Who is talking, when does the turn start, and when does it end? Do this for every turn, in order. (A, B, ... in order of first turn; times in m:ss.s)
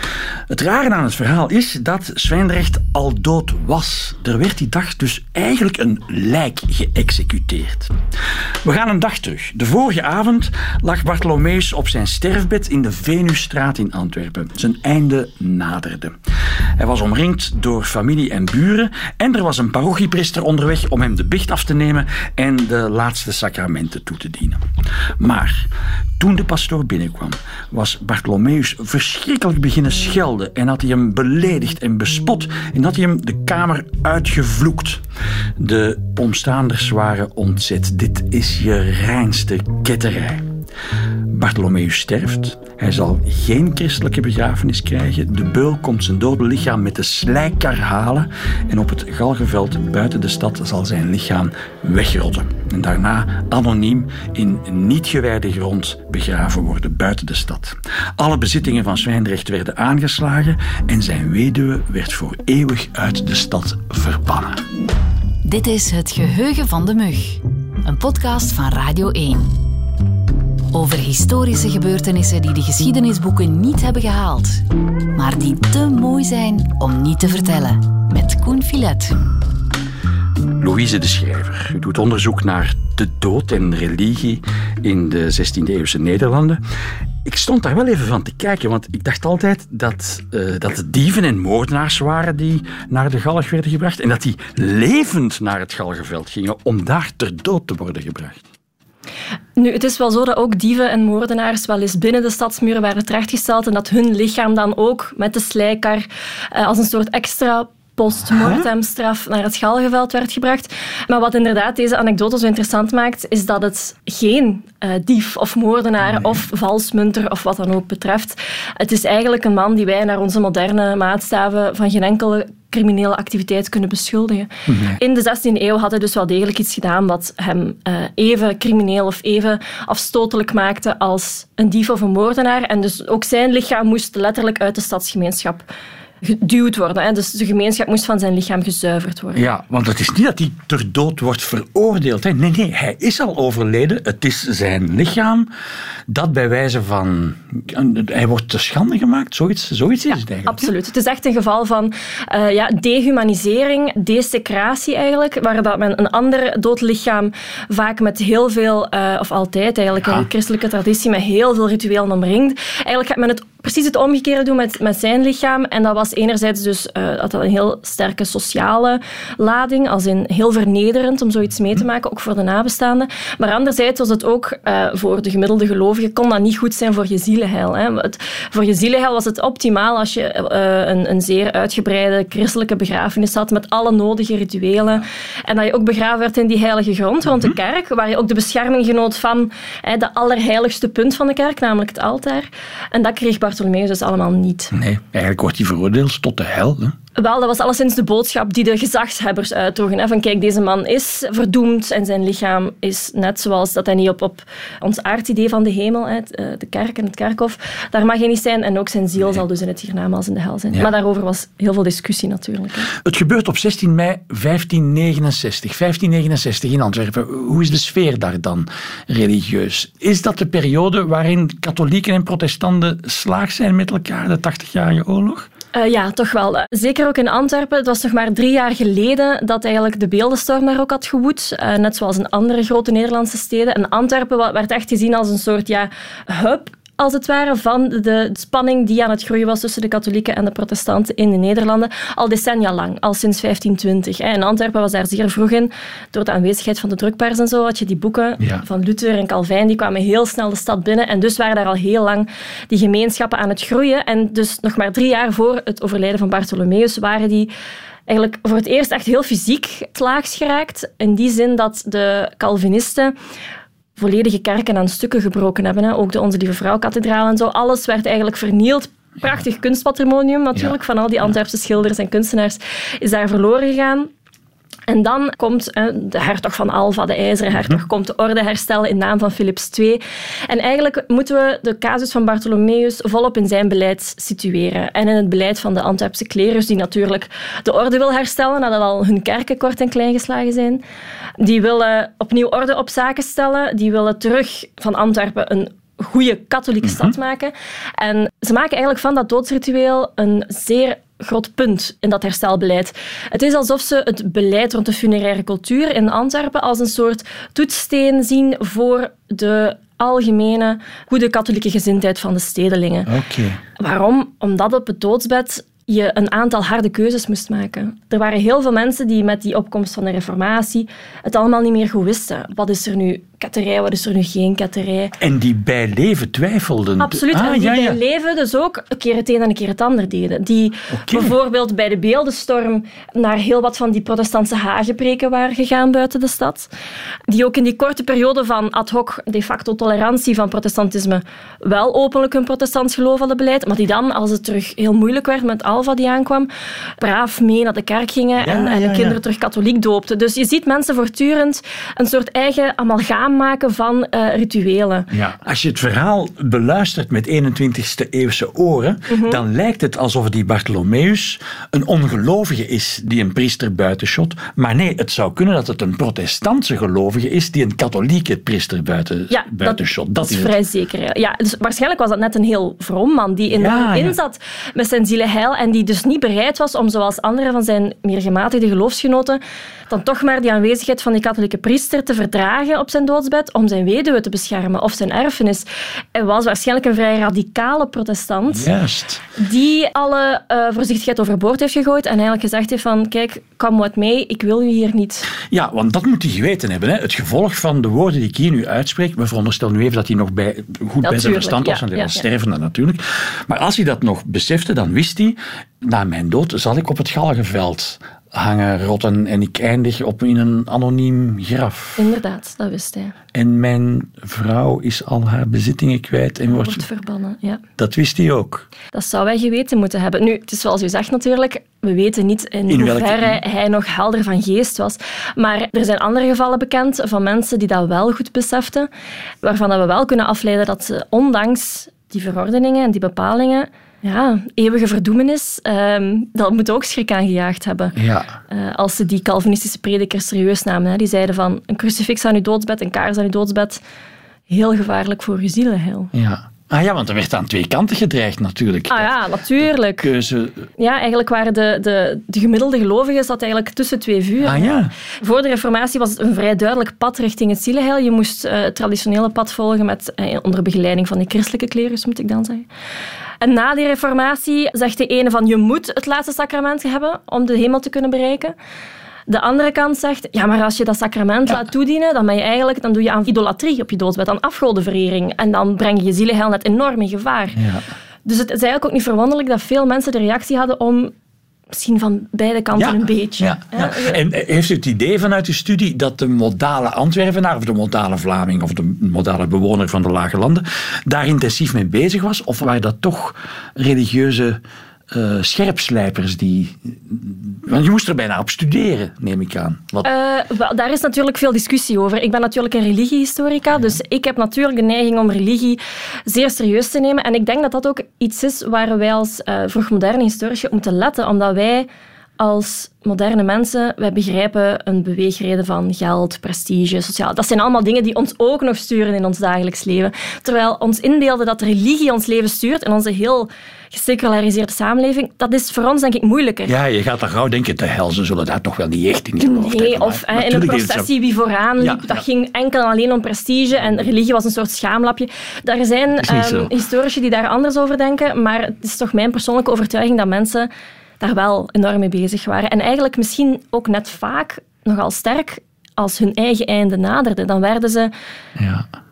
0:00.5-0:07.9 A
0:08.6-0:16.1 A
0:16.8-0:24.6 A
0:25.2-0:35.0 A
0:35.6-0:40.4 A
0:41.3-1:04.6 A
1:05.4-1:09.6 B
1:10.7-1:14.6 B
1:15.1-1:19.2 B
1:20.5-1:26.6 A
1:27.2-1:38.4 A
1:39.6-2:15.7 C
1:48.3-1:48.6 A
2:04.7-2:05.0 A
2:16.2-2:19.5 C
2:19.3-2:25.5 A
2:26.1-2:30.7 A
2:30.5-3:14.7 C
2:40.0-2:40.3 A
3:14.7-3:16.9 A
3:17.2-3:32.9 C
3:33.0-3:45.5 A
3:45.7-4:17.5 C
4:18.1-4:23.1 C
4:24.0-4:34.1 C
4:34.9-4:50.8 C
4:51.4-5:13.1 C
4:56.8-4:57.1 A
5:13.1-5:13.6 A
5:13.8-5:25.2 C
5:25.2-5:28.0 A
5:27.0-5:36.7 C
5:30.9-5:31.4 A
5:37.3-5:55.1 C
5:48.4-5:49.2 A
5:55.1-6:10.6 A
5:59.1-5:59.4 C
6:09.3-6:28.7 C
6:13.5-6:14.2 A
6:28.5-6:29.2 A
6:29.3-6:35.3 C
6:35.4-6:52.0 A
6:41.0-6:42.2 C
6:52.0-6:53.1 C
6:53.3-6:56.8 A
6:56.5-6:57.6 C
6:57.8-6:58.7 A
6:58.9-7:08.9 C
7:02.7-7:03.4 A
7:09.4-7:18.0 C
7:17.9-7:18.4 A
7:18.5-7:23.8 C
7:24.5-7:26.1 C
7:26.1-7:29.2 A
7:28.9-7:30.1 C
7:30.0-7:30.7 A
7:30.8-7:42.7 C
7:34.4-7:34.9 A
7:43.4-7:48.5 C
7:49.3-7:57.6 C
7:57.5-7:57.8 A
7:58.2-8:01.1 C
8:01.7-8:04.2 C
8:02.7-8:14.6 A
8:15.1-8:20.1 A
8:20.0-8:31.9 C
8:32.4-8:46.8 C
8:46.6-8:51.1 A
8:49.4-9:00.7 C
8:51.8-8:52.2 A
8:56.2-8:56.7 A
9:01.2-9:08.1 C
9:08.6-9:08.9 A